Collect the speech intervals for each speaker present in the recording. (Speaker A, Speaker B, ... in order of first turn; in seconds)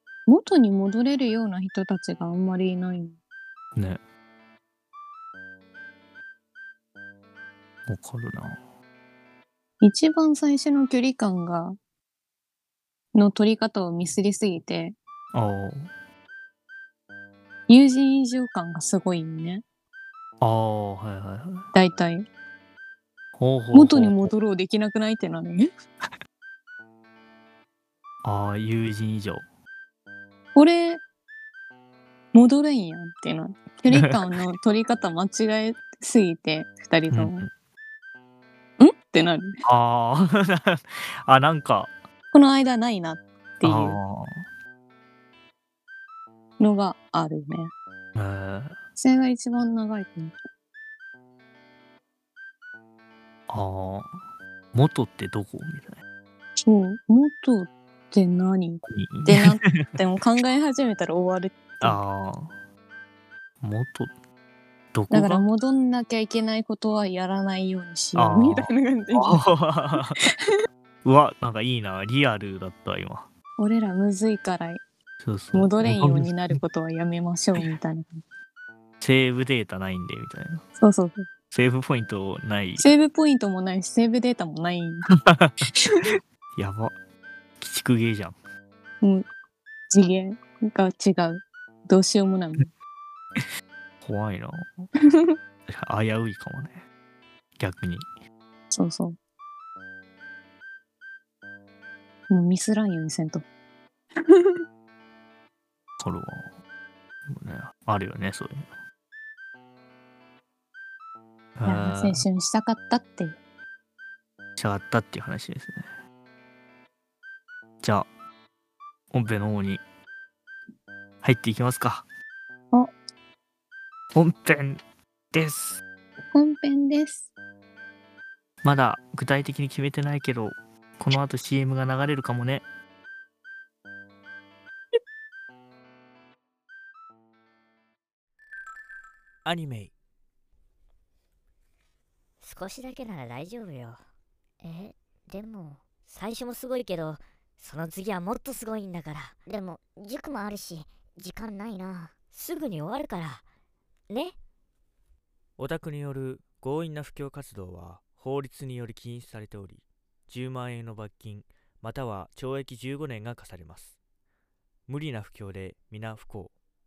Speaker A: 0.3-3.2, 9.8-11.8, 13.1-15.0, 17.7-19.6, 21.7-22.3, 23.7-25.7, 30.6-31.0, 32.3-37.5, 38.8-39.6, 42.3-44.0, 46.6-47.7, 49.0-50.3, 56.6-62.0, 65.1-69.4, 73.6-74.8, 75.5-78.2, 80.8-81.3, 82.8-85.1, 85.8-86.1, 89.9-92.7, 98.7-99.2, 102.3-103.5, 104.3-104.6, 111.7-113.4, 126.3-127.3
Speaker B: 7.9-8.6, 15.3-15.9, 20.4-21.7, 23.4-24.3, 28.2-29.4, 37.1-37.5, 39.6-41.9, 43.6-44.5, 48.1-48.8, 53.5-54.2, 54.7-56.0, 58.9-60.0, 61.8-62.5, 63.6-64.1, 64.9-65.5, 68.2-70.2, 71.0-73.3, 75.2-76.6, 79.0-80.7, 81.5-82.9, 85.1-85.7, 86.6-87.0, 87.6-88.4, 94.0-94.9, 95.7-96.8, 97.6-98.1, 106.0-106.5, 107.3-108.7, 111.6-112.2, 114.6-115.9, 117.8-118.1, 119.1-119.8, 121.2-122.0, 124.1-124.8, 125.3-125.8, 128.6-132.7
Speaker C: 139.4-139.9, 155.6-164.0, 164.9-166.5
Speaker D: 142.4-144.0, 144.6-153.4, 154.1-154.4